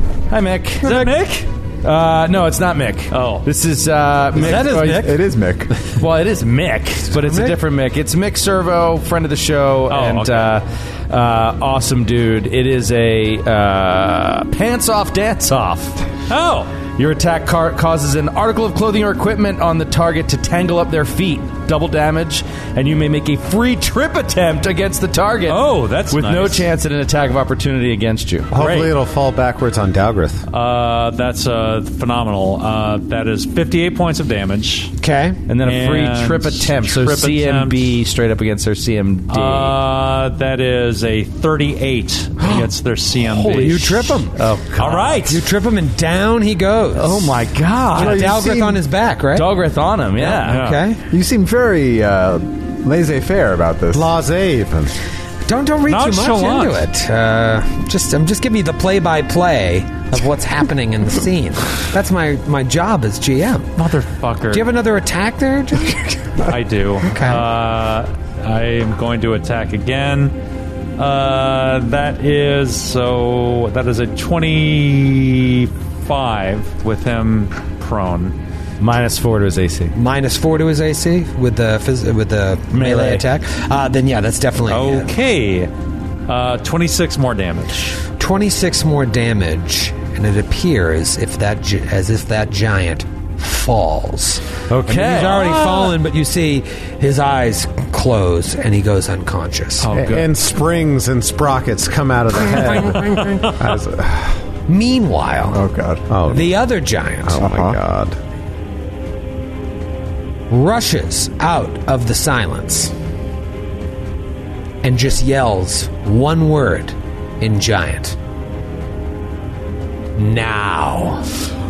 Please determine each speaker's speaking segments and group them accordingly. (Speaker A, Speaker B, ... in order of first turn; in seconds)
Speaker A: 0.3-5.1, 5.8-16.0, 16.9-28.5, 35.5-39.8, 44.4-45.3, 46.9-48.3, 49.3-50.8, 78.8-79.9, 82.7-83.2, 94.7-95.9
Speaker B: 0.8-1.4, 3.1-3.5, 9.9-10.6, 16.3-16.7, 25.5-26.6, 28.5-28.9, 30.5-34.9, 35.6-38.0, 39.3-44.2, 44.8-45.4, 50.5-50.8, 55.9-56.9, 63.8-64.8, 66.4-70.3, 71.0-78.3, 84.7-85.7, 86.3-88.0, 94.9-95.9, 99.8-100.3, 103.2-103.5
Speaker C: 4.3-5.1, 7.1-7.5, 35.0-35.4, 43.3-44.4, 45.2-47.4, 47.9-49.5, 50.2-51.0, 55.4-63.7, 64.5-66.5, 67.1-67.4, 79.9-85.1, 88.2-99.9, 102.8-103.5, 104.7-105.6, 106.3-107.4, 110.5-112.9, 114.8-118.2, 120.2-121.3
Speaker D: 4.4-5.7, 47.9-48.8, 51.1-54.1, 105.5-106.1, 107.3-107.8
Speaker E: 28.5-30.4, 53.9-54.9, 99.9-104.4, 106.1-106.6, 107.2-108.2